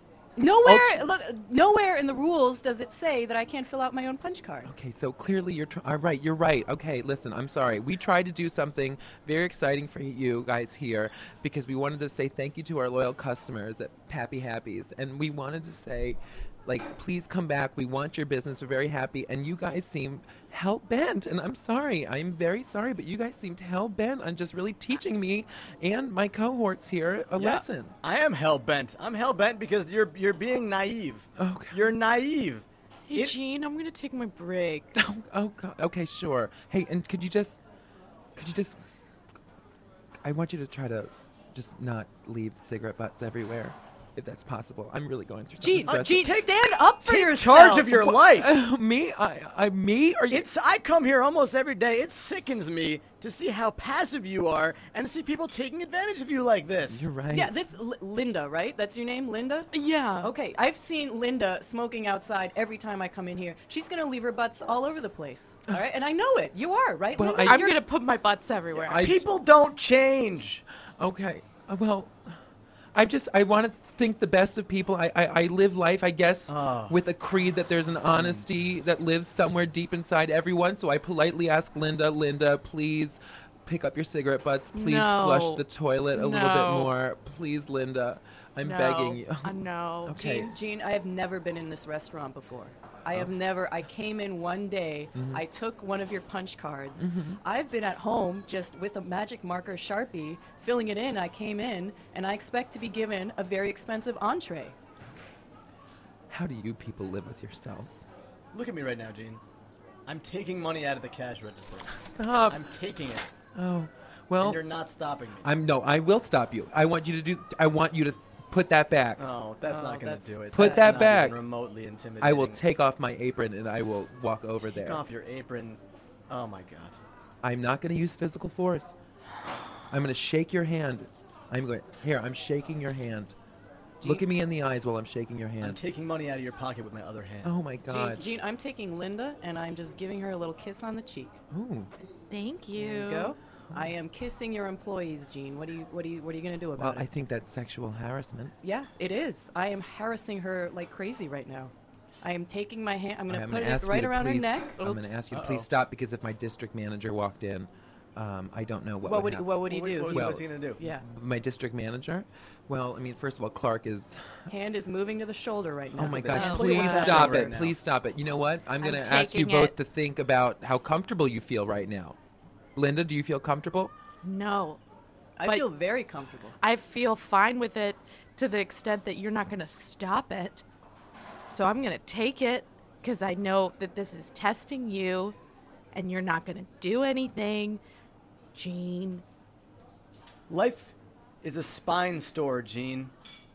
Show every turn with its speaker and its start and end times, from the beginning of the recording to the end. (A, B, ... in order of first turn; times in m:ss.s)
0:00.4-0:04.7 A
0:00.6-0:01.0 B
0:04.6-0:27.9 B
0:27.4-0:33.4 C
0:31.4-0:31.9 B
0:33.1-0:34.9 D
0:34.9-0:37.6 B
0:38.4-0:38.8 B
0:40.2-0:46.3 B
0:45.6-0:48.0 A
0:45.9-0:48.5 C
0:48.1-0:50.4 B
0:50.3-0:57.1 C
0:56.9-0:57.5 B
0:57.3-1:07.8 A
0:59.7-1:00.3 D
1:07.1-1:07.7 B
1:07.4-1:09.1 D
1:08.8-1:09.2 B
1:08.8-1:10.6 C
1:11.0-1:12.4 B
1:12.9-1:30.5 B
1:16.5-1:17.0 C
1:18.1-1:18.4 C
1:24.7-1:26.9 D
1:28.6-1:30.2 D
1:30.1-1:44.8 A
1:35.1-1:35.4 B
1:37.0-1:37.4 B
1:46.3-1:48.0 B
1:48.5-1:49.4 C
1:50.0-1:53.3 C
1:51.9-1:52.7 B
1:53.5-1:54.6 B
1:54.4-1:55.5 C
1:55.4-1:59.2 B
1:59.2-2:02.6 C
1:59.7-2:01.0 A
2:00.5-2:01.4 B
2:02.2-2:05.0 B
2:04.6-2:07.0 C
2:07.4-2:08.9 B
2:09.9-2:13.3 B
2:14.0-2:15.8 B
2:15.6-2:17.6 C
2:17.4-2:18.3 B
2:17.9-2:21.4 A
2:21.5-2:21.9 B
2:22.3-2:23.4 D
2:22.8-2:27.1 A
2:26.8-2:28.5 B
2:28.6-2:34.8 A
2:33.3-2:44.5 B
2:34.8-2:35.2 D
2:35.3-2:35.7 C
2:39.0-2:41.0 A
2:39.7-2:40.8 C
2:44.5-2:47.2 A
2:46.0-2:52.2 B
2:46.1-2:47.8 C
2:46.3-2:47.3 D
2:48.8-2:49.7 D
2:52.8-2:53.9 B
2:54.2-2:54.8 D
2:55.4-2:56.6 A
2:55.4-2:55.7 D
2:56.6-3:00.6 D
3:01.5-3:05.4 D
3:05.9-3:07.8 D
3:08.5-3:09.2 D
3:10.5-3:13.1 C